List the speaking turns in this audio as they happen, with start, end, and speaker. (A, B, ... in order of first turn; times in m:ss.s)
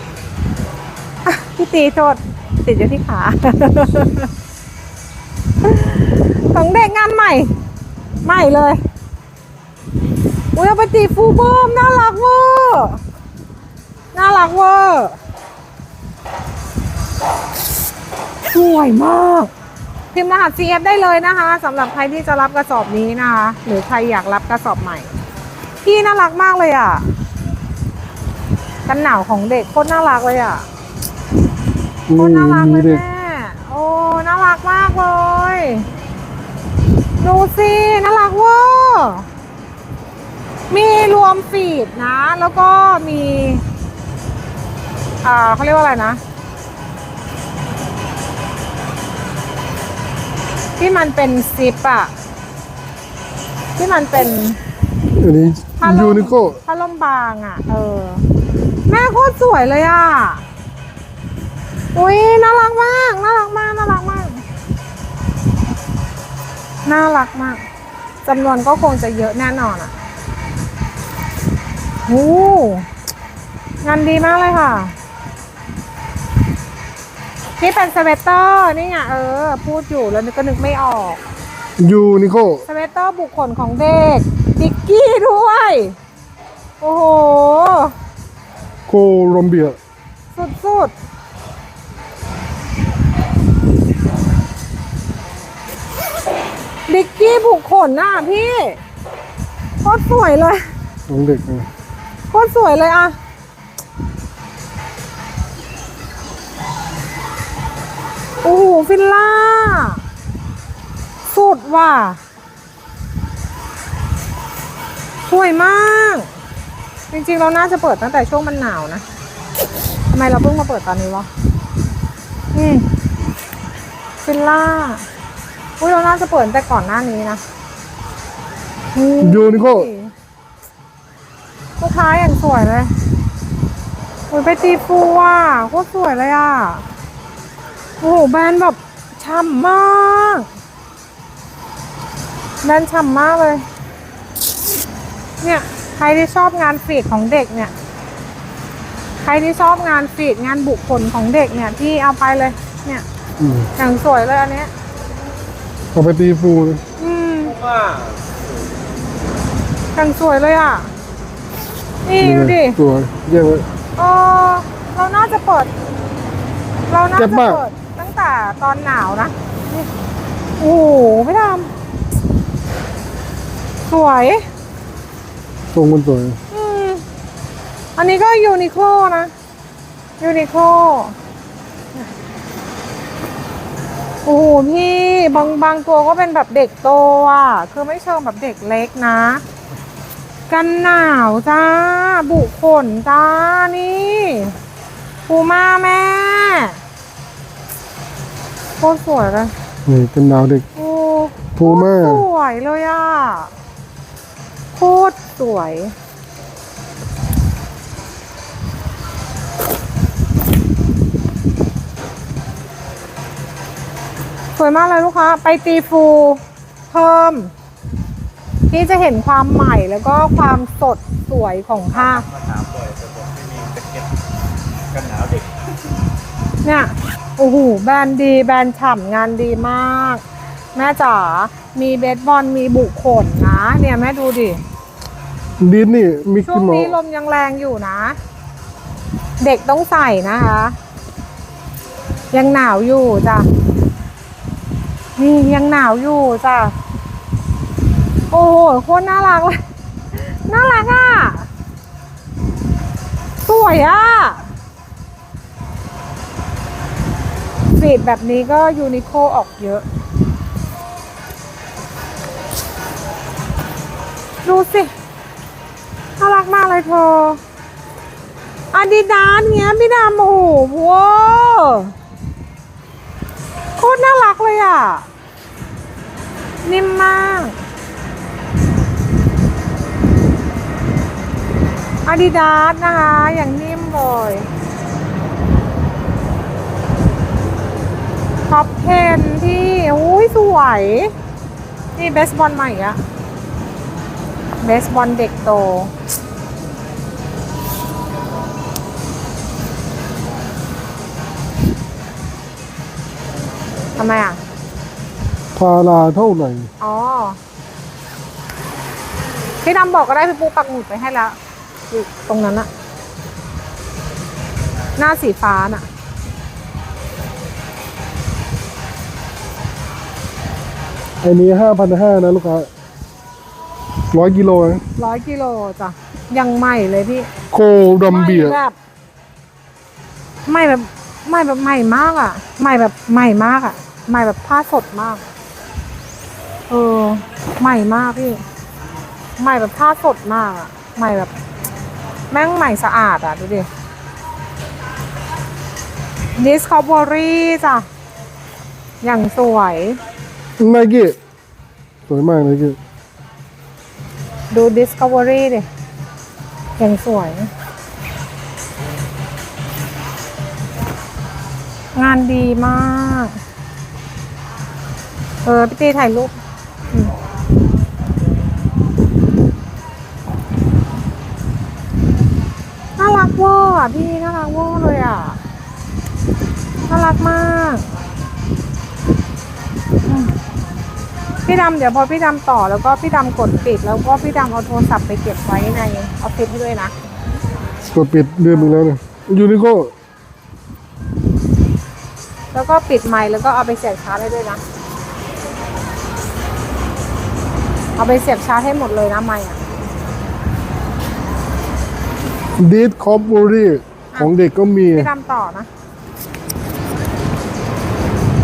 0:01.3-0:04.3 A
0:05.6-0:07.5 A
0:08.2-0:08.8 A
0:10.5-0:13.0 A
0:14.1-0:15.2 A
0:18.5-0:19.5 A
0:20.1-0:25.1 A
0:25.8-0:27.1 A
0:28.9-0:30.7 A
0:32.1-0:33.0 B
0:32.2-0:35.9 A
0:37.2-0:39.3 A
0:40.7-0:43.6 A
0:45.2-0:46.2 A
0:50.8-0:52.1 A
0:53.8-0:54.6 A
0:55.1-0:56.6 B
0:55.8-0:58.2 A
0:58.9-1:00.4 A
1:01.9-1:04.4 A
1:06.9-1:07.6 A
1:08.2-1:09.9 A
1:12.1-1:12.9 A
1:13.8-1:14.9 A
1:17.6-1:21.2 A
1:21.8-1:22.6 B
1:22.7-1:25.9 A
1:26.8-1:27.9 A
1:28.9-1:29.8 B
1:30.3-1:30.9 A
1:36.9-1:38.8 A
1:39.8-1:40.6 A
1:41.1-1:41.7 B
1:42.3-1:43.2 A
1:48.4-1:50.0 A
1:51.2-1:52.2 A
1:55.3-1:56.3 A
1:57.1-1:59.0 A
2:00.1-2:01.3 A
2:02.5-2:02.8 A
2:04.2-2:05.0 A
2:05.8-2:07.4 A
2:08.9-2:10.1 A
2:09.2-2:09.9 B
2:11.8-2:12.9 A
2:14.3-2:16.8 A
2:18.0-2:20.5 A
2:22.6-2:23.6 A
2:25.4-2:27.7 A
2:29.2-2:33.0 A
2:33.4-2:33.7 B
2:33.8-2:34.7 A
2:35.9-2:36.8 B
2:37.0-2:37.6 A
2:37.5-2:38.3 C
2:39.9-2:40.9 A
2:42.0-2:42.8 A
2:42.2-2:43.6 B
2:44.0-2:45.7 A
2:46.9-2:49.9 A
2:47.2-2:47.6 B
2:50.6-2:51.7 A
2:53.9-2:54.4 A
2:55.7-2:56.4 B
2:56.5-2:57.0 A
2:58.0-2:59.3 A
3:00.2-3:01.1 A
3:04.2-3:09.4 A
3:10.5-3:14.6 A
3:15.3-3:16.8 A
3:18.8-3:19.5 A
3:19.9-3:20.7 B
3:20.8-3:23.5 A
3:21.6-3:22.2 B
3:24.8-3:25.9 A
3:34.6-3:37.5 A
3:38.7-3:42.2 A
3:41.9-3:44.1 C
3:44.9-3:45.5 C
3:46.6-3:50.2 A
3:50.8-3:54.6 A
3:55.6-3:57.0 B
3:56.5-3:58.2 A
3:59.4-4:00.8 A
4:02.3-4:03.5 A
4:05.2-4:06.7 A
4:08.3-4:09.6 A
4:10.1-4:11.5 A
4:13.4-4:14.4 A
4:17.8-4:19.8 A
4:24.4-4:24.9 A
4:26.2-4:27.4 A
4:28.7-4:31.9 A
4:33.8-4:35.1 A
4:36.6-4:37.6 A
4:42.1-4:44.5 A
4:48.5-4:51.1 A
4:52.0-4:53.0 A
4:54.6-4:55.9 A
5:04.0-5:04.4 A
5:05.6-5:06.7 B
5:06.8-5:07.4 A
5:09.6-5:11.4 A
5:11.9-5:12.7 A
5:15.0-5:15.8 A
5:21.2-5:22.7 B
5:24.1-5:24.8 B
5:25.0-5:27.3 A
5:27.5-5:28.6 B
5:28.1-5:28.8 A
5:30.4-5:35.2 A
5:36.7-5:38.4 A
5:39.4-5:41.3 A
5:42.3-5:43.7 A
5:46.4-5:47.8 A
5:49.0-5:50.0 A
5:50.6-5:51.2 B
5:52.1-5:52.8 B
5:54.5-5:55.7 A
5:56.8-5:57.5 A
6:01.9-6:03.4 A
6:05.4-6:06.3 A
6:13.0-6:15.4 A
6:16.9-6:17.8 A
6:20.1-6:20.3 A
6:21.4-6:26.9 A
6:27.9-6:29.9 B
6:32.5-6:34.6 A
6:38.0-6:39.6 A
6:42.6-6:45.1 B
6:44.9-6:45.7 A